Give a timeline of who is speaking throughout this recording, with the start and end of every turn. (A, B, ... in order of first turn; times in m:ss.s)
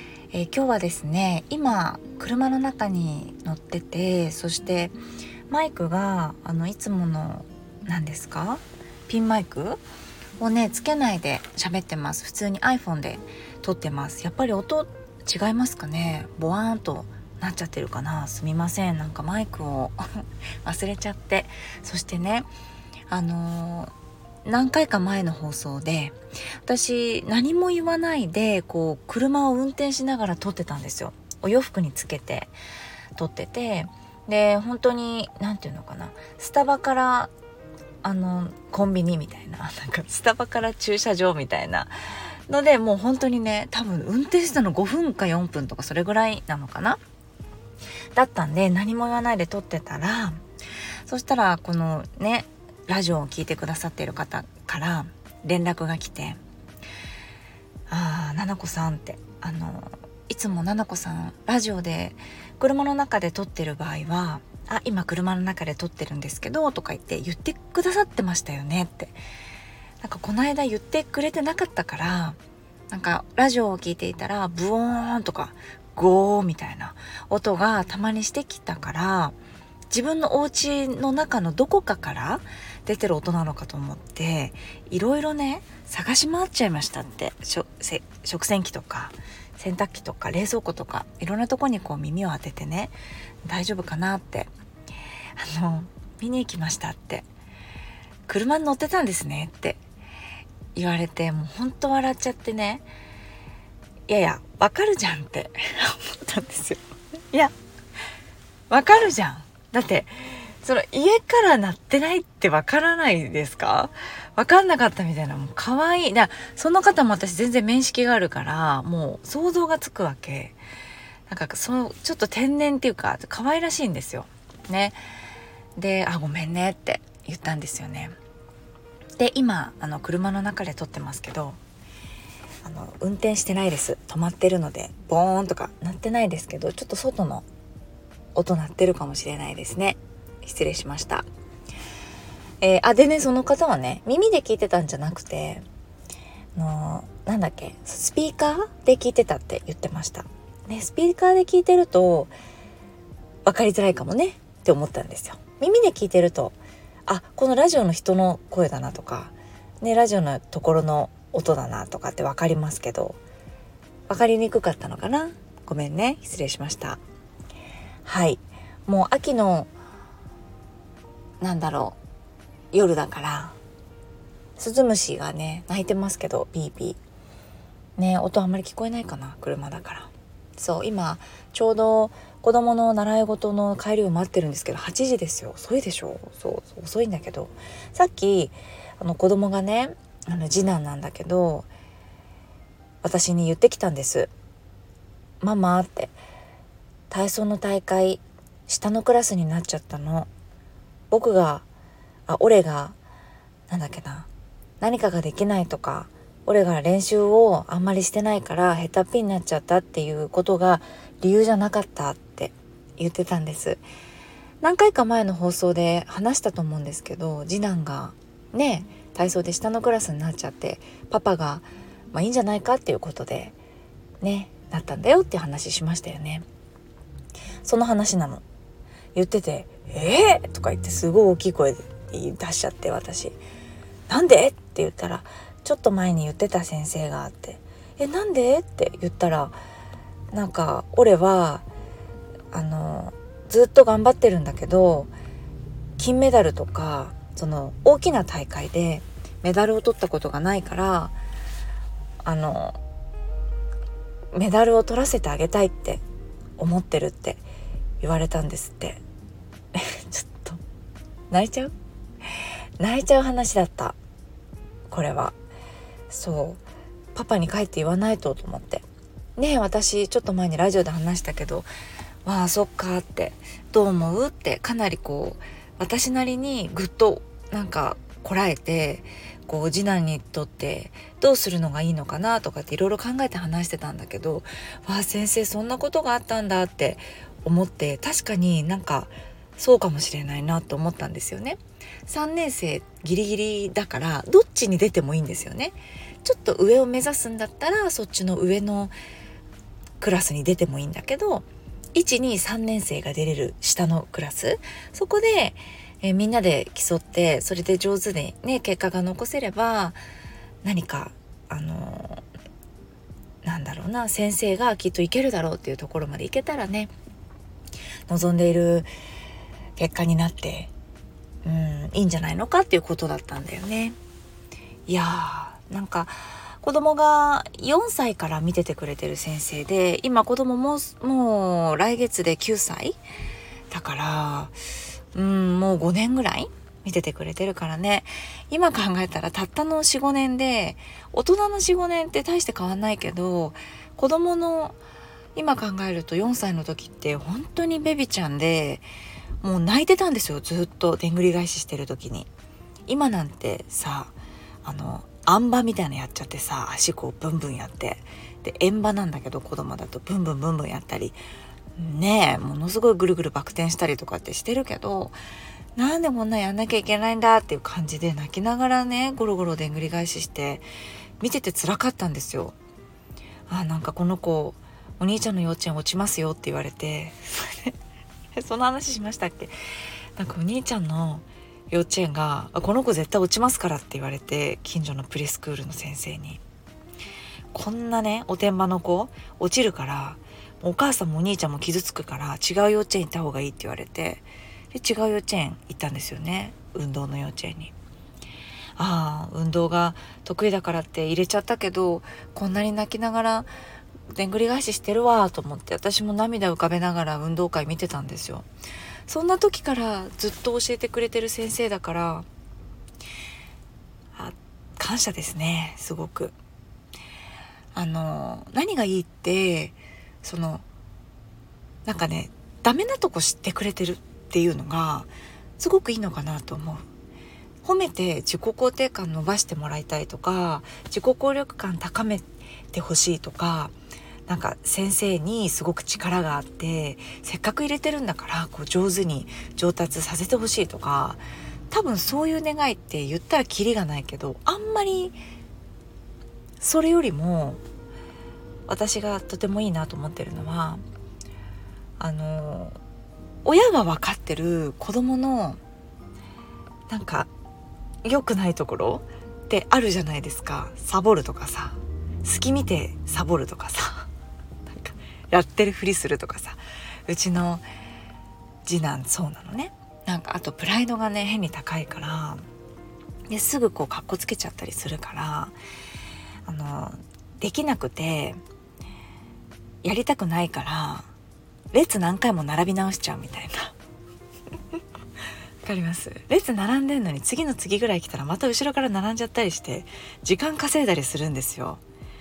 0:00.3-0:05.0 A
0:05.5-0:09.8 A
0:10.4-0:22.5 A
0:23.1-0:23.9 A
0:24.4-0:32.5 A
0:33.1-0:37.3 A
0:38.0-0:41.9 A
0:42.5-0:47.0 A
0:48.1-0:50.4 A
0:51.0-0:56.4 A
0:57.9-1:09.2 A
1:10.0-1:12.4 A
1:12.9-1:19.3 A
1:19.9-1:32.9 A
1:33.4-1:34.5 A
1:35.4-1:37.2 A
1:38.3-1:39.8 A
1:40.7-1:42.9 A
1:44.1-1:47.5 A
1:48.7-2:00.6 A
2:01.3-2:05.0 A
2:05.8-2:08.1 A
2:09.2-2:11.6 A
2:12.6-2:17.4 A
2:18.3-2:21.3 A
2:22.6-2:25.6 A
2:26.5-2:32.3 A
2:33.4-2:43.2 A
2:44.1-2:47.0 A
2:48.0-2:49.7 A
2:51.4-2:52.0 A
2:52.7-2:53.6 A
2:54.6-2:57.0 A
2:58.0-3:11.7 A
3:13.0-3:14.3 A
3:15.4-3:16.2 A
3:17.1-3:20.3 A
3:21.1-3:21.6 A
3:22.3-3:23.0 A
3:23.7-3:24.3 A
3:24.8-3:33.8 A
3:34.6-3:43.6 A
3:44.2-3:46.4 A
3:47.6-3:48.4 A
3:49.1-3:53.4 A
3:54.1-3:59.6 A
4:00.3-4:01.7 A
4:02.5-4:05.1 A
4:06.0-4:11.1 A
4:12.2-4:12.8 A
4:14.3-4:16.0 A
4:16.6-4:17.4 A
4:18.0-4:19.0 A
4:19.7-4:20.6 A
4:21.3-4:21.7 A
4:22.8-4:24.0 A
4:24.9-4:25.4 A
4:26.1-4:26.6 A
4:27.1-4:28.8 A
4:29.4-4:31.7 A
4:32.2-4:58.9 A
5:00.0-5:10.0 A
5:10.6-5:12.2 A
5:13.4-5:16.9 A
5:18.1-5:18.9 A
5:19.8-5:20.7 A
5:21.4-5:24.0 A
5:24.9-5:33.0 A
5:33.7-5:34.6 A
5:35.1-5:44.8 A
5:45.3-5:48.8 A
5:49.4-5:52.3 A
5:52.9-6:01.2 A
6:01.8-6:05.2 A
6:05.8-6:10.6 A
6:11.2-6:12.6 A
6:13.5-6:17.7 A
6:18.3-6:19.5 A
6:20.2-6:26.4 A
6:27.5-6:37.7 A
6:38.8-6:43.5 A
6:44.1-6:48.5 A
6:49.1-6:52.2 A
6:54.1-6:56.4 A
6:57.7-7:00.6 A
7:01.8-7:06.8 A
7:07.6-7:13.7 A
7:14.3-7:25.2 A
7:26.6-7:27.6 A
7:28.7-7:30.8 A
7:32.0-7:32.8 A
7:33.4-7:35.6 A
7:36.9-7:37.3 A
7:38.0-7:44.1 A
7:44.7-7:47.6 A
7:48.6-7:52.4 A
7:53.3-7:55.6 A
7:56.4-7:58.4 A
7:59.8-8:01.1 A
8:01.7-8:03.7 A
8:05.6-8:11.8 A